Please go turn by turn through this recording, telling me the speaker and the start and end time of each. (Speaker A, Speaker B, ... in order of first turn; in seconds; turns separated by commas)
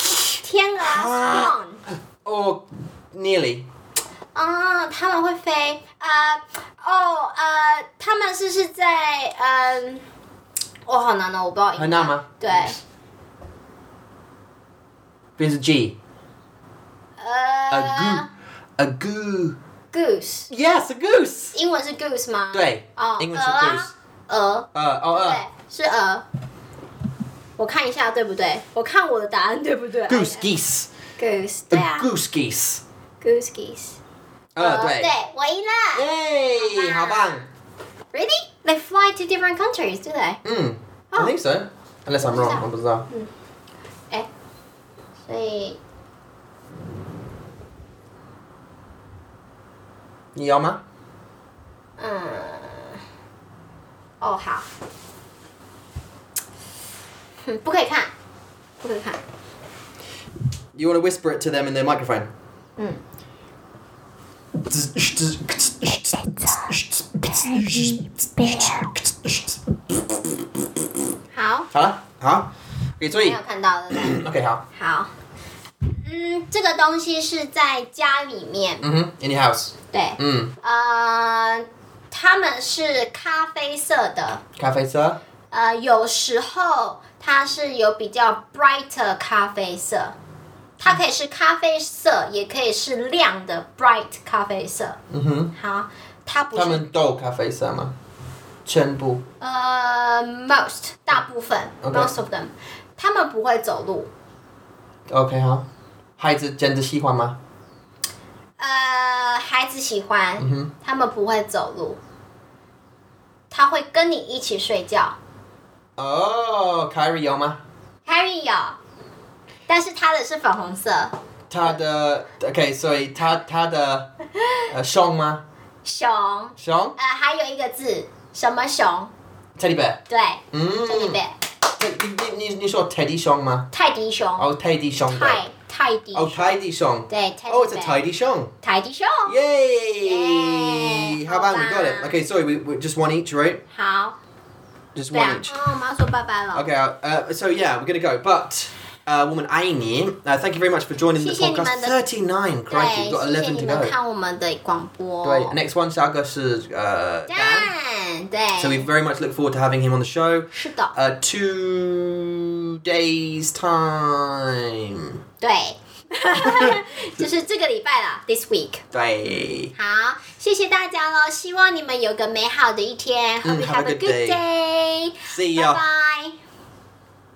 Speaker A: 0.4-1.8, Speaker B: 0.8-1.5, Speaker B: 2.2-3.7, Speaker A: 4.3-10.0, Speaker A: 10.9-12.8, Speaker B: 11.8-12.7, Speaker B: 15.4-15.9, Speaker A: 17.2-18.3, Speaker B: 17.7-18.2, Speaker B: 18.8-19.6, Speaker A: 19.9-20.5, Speaker B: 20.5-21.6, Speaker A: 21.5-26.2, Speaker B: 22.5-23.9, Speaker B: 24.7-25.4, Speaker A: 27.6-30.5, Speaker B: 30.1-30.9, Speaker A: 31.2-32.1, Speaker B: 31.7-32.8, Speaker A: 33.2-34.0, Speaker B: 34.5-35.1, Speaker A: 34.6-37.4, Speaker B: 35.9-37.5, Speaker A: 38.1-40.4, Speaker B: 40.4-43.1, Speaker A: 42.2-43.3, Speaker A: 45.3-45.8, Speaker B: 50.3-50.8, Speaker A: 52.0-53.0, Speaker A: 54.2-54.7, Speaker A: 57.4-58.1, Speaker A: 58.8-59.2, Speaker B: 60.7-62.3, Speaker B: 64.5-71.0, Speaker A: 68.5-68.8, Speaker A: 71.3-71.7, Speaker B: 71.7-73.4, Speaker A: 73.2-74.2, Speaker B: 73.9-74.6, Speaker A: 74.7-75.1, Speaker A: 75.9-78.9, Speaker B: 78.8-80.5, Speaker A: 79.9-84.4, Speaker B: 84.5-85.2, Speaker A: 85.5-90.1, Speaker A: 90.8-95.0, Speaker B: 95.1-95.5, Speaker A: 95.5-96.8, Speaker B: 96.5-97.9, Speaker B: 98.7-99.2, Speaker A: 99.4-104.1, Speaker B: 101.8-102.1, Speaker B: 105.1-105.7, Speaker B: 106.2-107.4, Speaker A: 108.6-112.0, Speaker B: 110.4-110.7, Speaker A: 113.5-115.2, Speaker B: 116.0-117.6, Speaker A: 118.0-118.8, Speaker A: 119.7-121.1, Speaker B: 121.5-124.1, Speaker B: 124.7-125.4, Speaker A: 125.8-129.1, Speaker B: 126.6-127.0, Speaker B: 129.6-131.2, Speaker A: 130.1-131.3, Speaker B: 131.8-133.7, Speaker A: 133.7-136.6, Speaker B: 134.4-135.4, Speaker B: 136.1-138.5, Speaker A: 137.1-138.0, Speaker A: 138.6-139.4, Speaker B: 139.2-143.6, Speaker A: 140.0-142.2, Speaker A: 143.7-144.2, Speaker B: 144.9-145.6, Speaker A: 145.1-146.7, Speaker B: 146.5-153.9, Speaker A: 151.2-151.9, Speaker A: 152.7-155.6, Speaker B: 155.2-157.7, Speaker A: 157.3-158.8, Speaker B: 158.6-165.2, Speaker A: 160.5-160.9, Speaker A: 165.4-168.9, Speaker B: 166.3-167.2, Speaker B: 168.9-169.7, Speaker A: 169.7-176.3, Speaker B: 173.4-174.4, Speaker B: 175.2-175.8